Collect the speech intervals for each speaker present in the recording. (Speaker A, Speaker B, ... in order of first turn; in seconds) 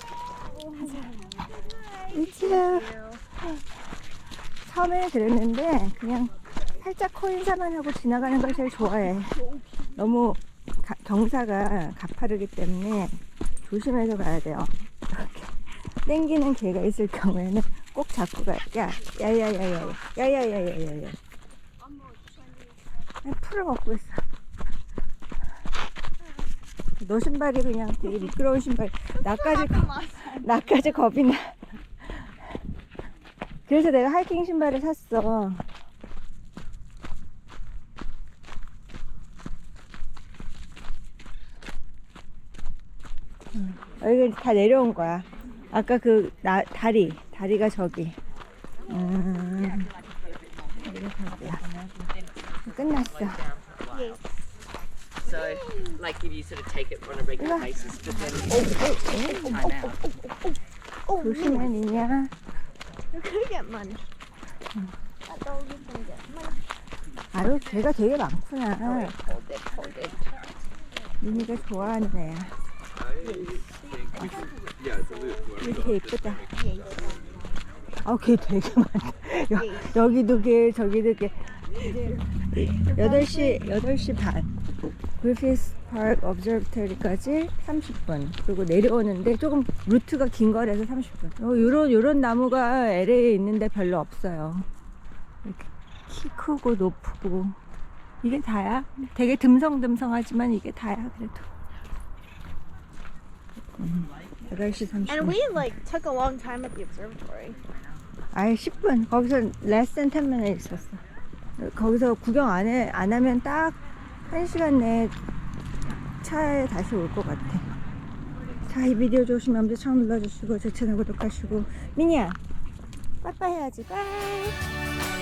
Speaker A: 0.2-3.2, 9.4-9.9, 29.1-30.9, 53.9-54.4, 55.2-56.0, 58.0-61.7, 63.1-64.1, 65.3-66.7, 68.8-70.5, 73.2-75.6, 76.5-77.6, 79.5-80.0, 81.8-83.6, 105.0-107.6
Speaker B: 0.8-1.2, 2.1-2.9, 4.7-9.4, 10.0-21.2, 23.2-24.2, 27.0-32.5, 33.7-35.7, 43.5-48.2, 48.9-50.0, 50.8-51.6, 52.7-53.5, 57.4-57.9, 59.0-59.6, 61.2-62.3, 67.3-69.2, 71.2-72.5, 75.6-76.5, 78.0-84.5, 85.2-94.7, 95.4-97.6, 98.2-101.5, 103.8-105.6, 108.3-111.0, 111.6-115.2, 116.2-117.7, 118.7-122.4, 123.2-124.6
Speaker C: 56.1-58.3